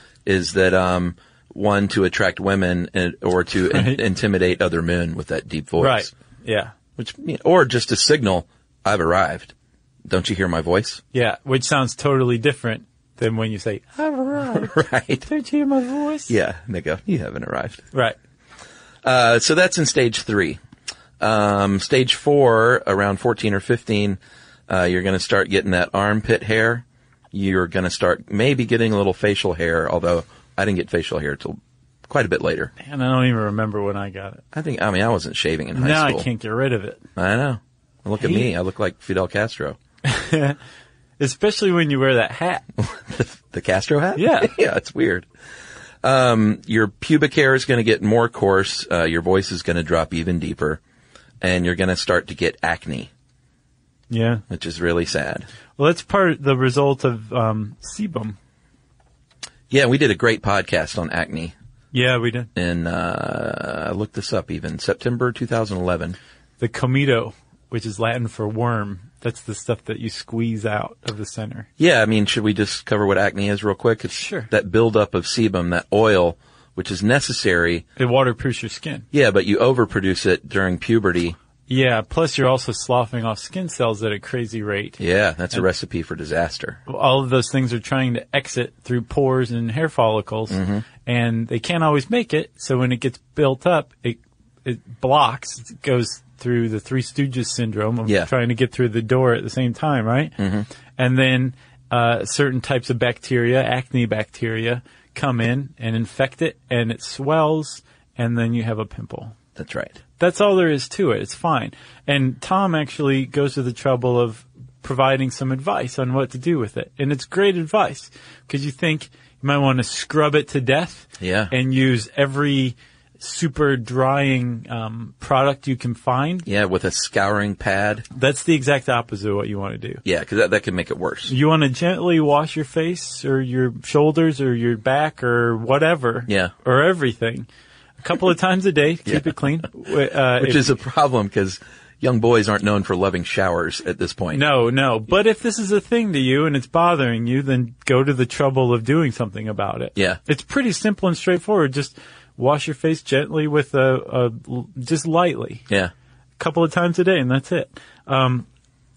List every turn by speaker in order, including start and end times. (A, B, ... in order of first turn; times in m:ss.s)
0:00.3-0:06.1 A
0:03.7-0:04.0 B
0:05.8-0:06.7 B
0:07.0-0:09.5 A
0:10.1-0:11.0 A
0:11.1-0:14.7 B
0:14.5-0:15.3 A
0:15.3-0:16.3 B
0:16.3-0:17.9 A
0:19.0-0:20.6 A
0:21.2-0:32.7 A
0:32.8-0:34.4 B
0:34.5-0:36.3 A
0:35.8-0:37.0 B
0:37.2-0:39.8 A
0:38.2-0:38.5 B
0:40.0-0:40.6 B
0:41.2-0:42.6 B
0:42.8-0:45.3 A
0:44.2-0:44.5 B
0:46.0-0:50.8 A
0:51.4-0:53.1 A
0:54.1-0:54.4 B
0:54.5-0:55.5 A
0:55.8-0:58.4 B
0:59.7-1:01.5 A
1:01.9-1:02.5 B
1:02.6-1:06.2 A
1:06.6-1:11.7 B
1:11.8-1:17.9 A
1:14.1-1:14.5 B
1:18.0-1:19.0 B
1:19.1-1:21.4 A
1:21.7-1:25.0 B
1:25.0-1:26.8 A
1:26.9-1:40.3 B
1:30.5-1:30.8 A
1:40.4-1:40.7 A
1:41.0-1:49.3 B
1:49.6-1:50.0 A
1:50.2-2:06.5 B
2:01.2-2:01.5 A
2:06.5-2:08.0 A
2:08.1-2:10.0 B
2:10.0-2:11.3 A
2:11.3-2:17.5 B
2:16.3-2:16.5 A
2:18.0-2:20.7 B
2:19.1-2:19.6 A
2:20.4-2:24.4 A
2:24.3-2:35.6 B
2:36.4-2:38.5 B